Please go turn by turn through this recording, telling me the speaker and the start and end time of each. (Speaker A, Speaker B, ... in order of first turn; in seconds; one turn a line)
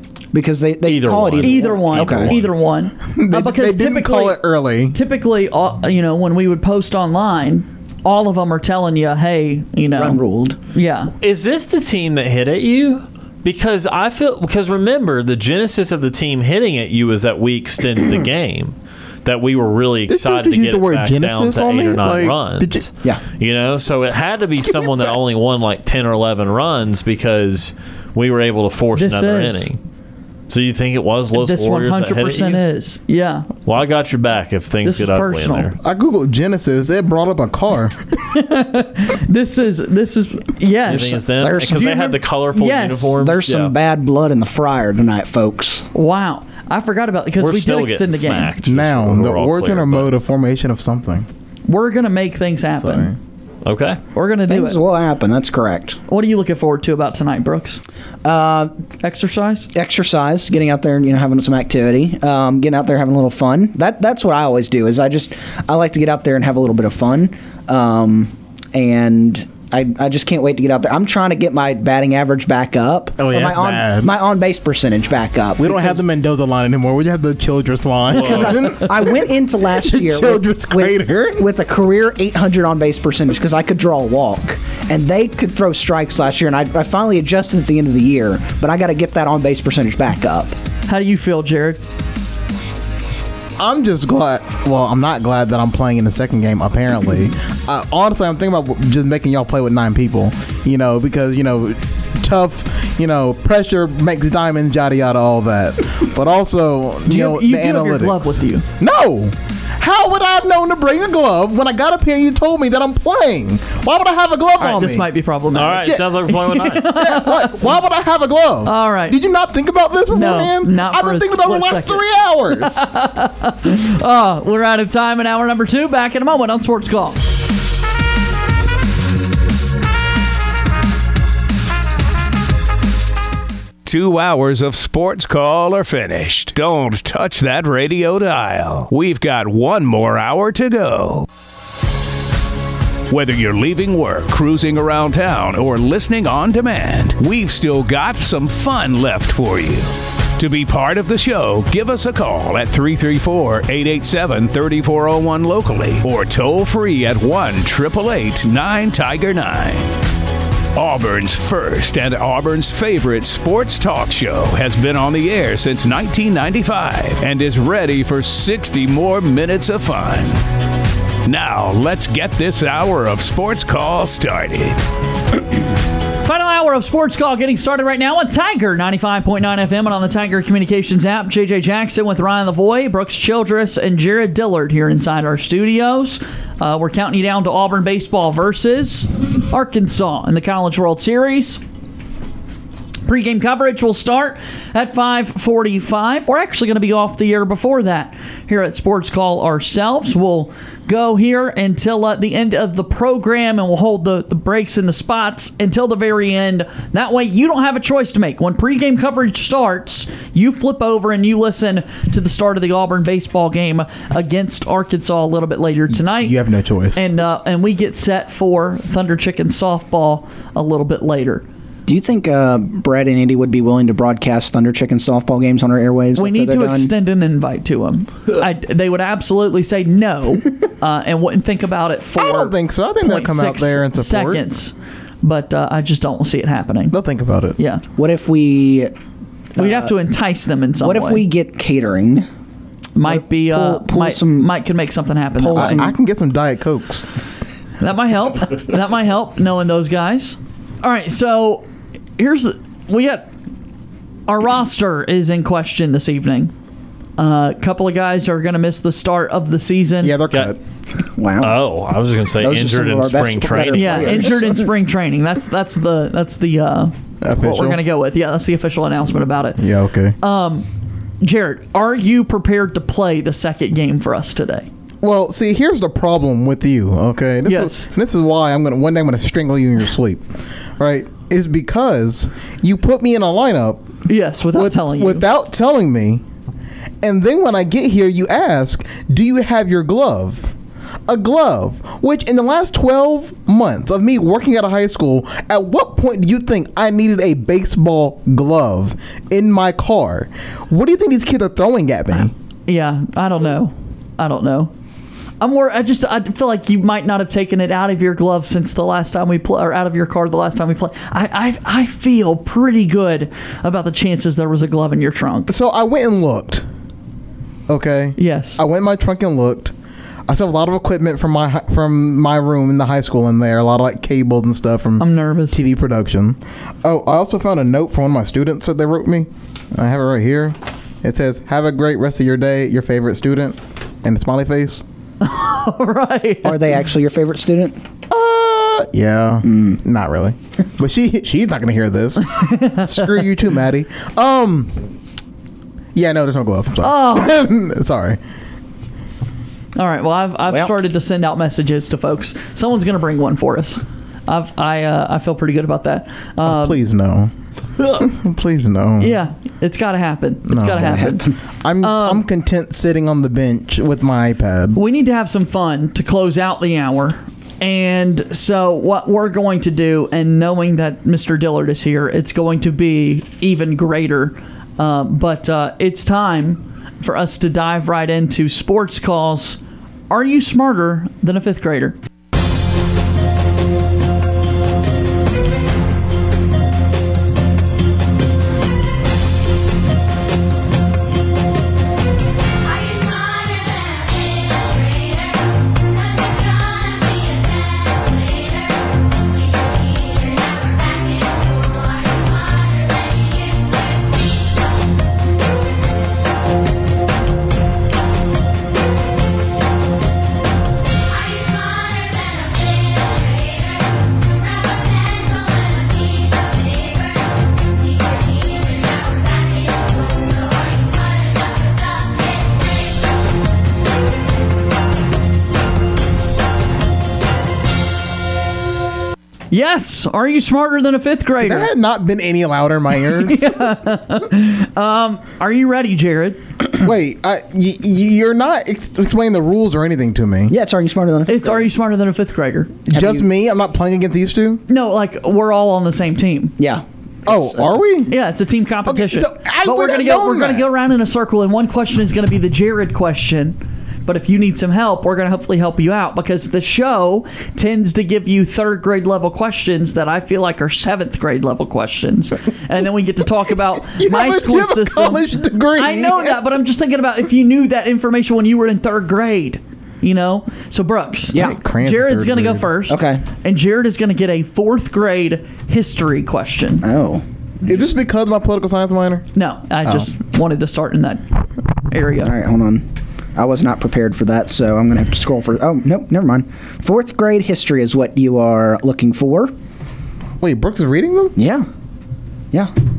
Speaker A: 0.3-2.3
Speaker B: 0.8-2.5
Speaker C: 1.4-4.4
Speaker D: 3.1-5.0
Speaker C: 4.9-10.2
Speaker A: 9.9-10.6
Speaker C: 10.7-11.1
Speaker B: 11.2-29.8
Speaker D: 20.1-22.9
Speaker D: 24.6-25.1
Speaker C: 28.9-29.7
Speaker B: 30.5-32.6
Speaker C: 31.4-33.5
Speaker B: 33.6-35.8
Speaker C: 34.8-35.7
Speaker D: 35.8-38.0
Speaker C: 38.3-43.1
Speaker B: 40.9-43.7
Speaker A: 41.4-41.9
Speaker A: 43.1-45.9
Speaker C: 45.9-48.5
Speaker B: 47.4-50.1
Speaker D: 48.6-51.3
Speaker C: 51.6-53.1
Speaker D: 52.8-53.1
Speaker B: 53.6-54.0
Speaker C: 54.1-54.8
Speaker A: 54.5-56.0
Speaker C: 56.1-57.8
Speaker A: 58.2-58.7
Speaker C: 59.0-59.7
Speaker A: 59.7-76.0
Speaker D: 73.2-74.1
Speaker D: 75.6-81.5
Speaker B: 78.1-78.6
Speaker A: 78.1-90.5
Speaker C: 90.9-91.8
Speaker D: 93.6-115.1
Speaker C: 107.1-108.6
Speaker C: 114.6-117.7
Speaker B: 115.5-117.0
Speaker D: 116.9-122.9
Speaker C: 118.6-119.2
Speaker C: 120.1-122.0
Speaker C: 122.6-127.3
Speaker E: 133.8-141.3
Speaker E: 143.1-159.9
Speaker E: 160.8-170.4
Speaker E: 171.2-174.8
Speaker C: 176.2-191.6
Speaker C: 193.1-216.4
Speaker D: 215.9-217.1
Speaker C: 216.9-221.4
Speaker A: 221.8-226.9
Speaker C: 226.2-237.0
Speaker D: 232.2-234.4
Speaker D: 236.9-237.6
Speaker C: 237.6-237.8
Speaker A: 238.0-238.9
Speaker A: 239.6-239.9
Speaker C: 239.6-241.2
Speaker A: 240.8-242.3
Speaker C: 242.9-245.9
Speaker A: 243.1-244.5
Speaker A: 245.4-245.9
Speaker D: 245.6-247.1
Speaker C: 247.8-251.7
Speaker C: 252.2-253.3
Speaker C: 254.3-256.5
Speaker C: 257.2-260.1
Speaker D: 260.0-260.6
Speaker A: 261.1-261.6
Speaker B: 261.4-264.4
Speaker A: 262.4-264.7
Speaker C: 263.7-269.6
Speaker D: 267.2-267.8
Speaker D: 269.6-270.1
Speaker C: 270.2-270.7
Speaker C: 271.2-274.7
Speaker D: 275.0-280.2
Speaker C: 277.4-277.9
Speaker D: 280.8-283.9
Speaker C: 284.1-285.3
Speaker D: 284.5-286.2
Speaker D: 287.0-290.5
Speaker D: 291.1-302.3
Speaker C: 302.7-304.7
Speaker C: 305.4-315.5
Speaker D: 315.5-316.6
Speaker D: 317.7-319.7
Speaker C: 318.2-318.6
Speaker D: 320.3-334.8
Speaker C: 325.0-325.6
Speaker C: 335.2-336.8
Speaker A: 336.4-337.8
Speaker D: 338.1-344.7
Speaker A: 339.4-339.8
Speaker C: 342.3-343.1
Speaker D: 345.9-348.2
Speaker C: 346.8-347.3
Speaker C: 349.8-356.8
Speaker D: 356.4-357.3
Speaker D: 358.0-359.2
Speaker C: 359.0-361.2
Speaker D: 360.4-364.8
Speaker A: 360.7-361.4
Speaker C: 361.8-362.2
Speaker C: 364.7-379.6
Speaker C: 380.1-381.9
Speaker C: 429.5-431.7
Speaker D: 431.4-433.7
Speaker C: 433.1-436.4
Speaker D: 436.8-440.6
Speaker A: 440.5-441.7
Speaker C: 441.3-442.7
Speaker A: 442.9-443.3
Speaker D: 442.9-444.6
Speaker C: 444.7-446.6
Speaker A: 446.6-447.8
Speaker D: 447.2-448.1
Speaker C: 448.1-476.9
Speaker D: 448.8-450.7
Speaker D: 463.8-466.4
Speaker D: 471.3-472.7
Speaker A: 471.3-471.6
Speaker A: 472.9-473.2
Speaker A: 476.8-477.8
Speaker D: 477.7-479.2
Speaker C: 479.3-481.2
Speaker C: 481.9-482.3
Speaker A: 482.2-489.5
Speaker D: 490.4-491.3
Speaker A: 491.4-491.6